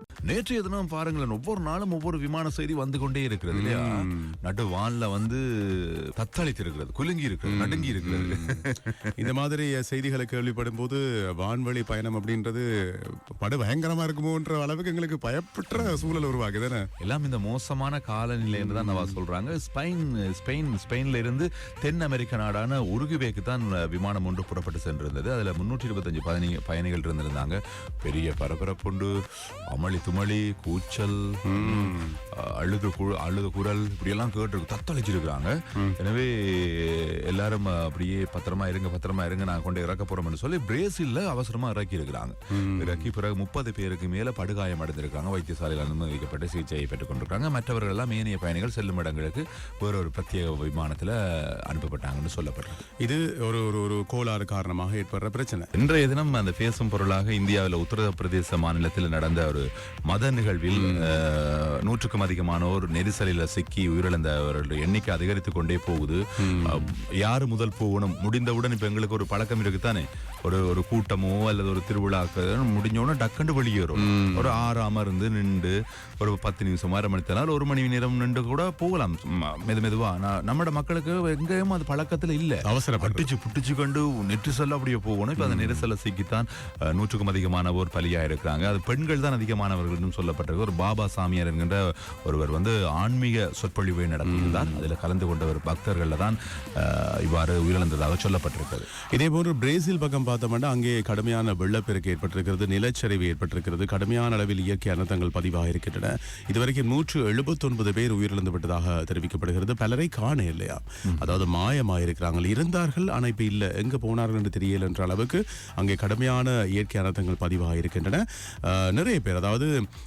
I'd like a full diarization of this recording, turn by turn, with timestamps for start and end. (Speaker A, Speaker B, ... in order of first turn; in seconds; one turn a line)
Speaker A: 0.3-9.3
Speaker B: 3.5-4.3
Speaker B: 7.5-8.6
Speaker B: 9.2-16.8
Speaker A: 15.8-16.3
Speaker A: 17.0-29.1
Speaker B: 18.5-19.2
Speaker A: 29.7-52.8
Speaker B: 31.4-32.2
Speaker B: 42.6-43.1
Speaker B: 53.0-55.7
Speaker A: 55.7-98.9
Speaker B: 60.7-61.2
Speaker B: 66.4-66.9
Speaker B: 74.0-74.7
Speaker B: 82.6-83.3
Speaker B: 85.4-85.8
Speaker B: 94.2-94.9
Speaker B: 99.1-119.7
Speaker A: 111.1-111.4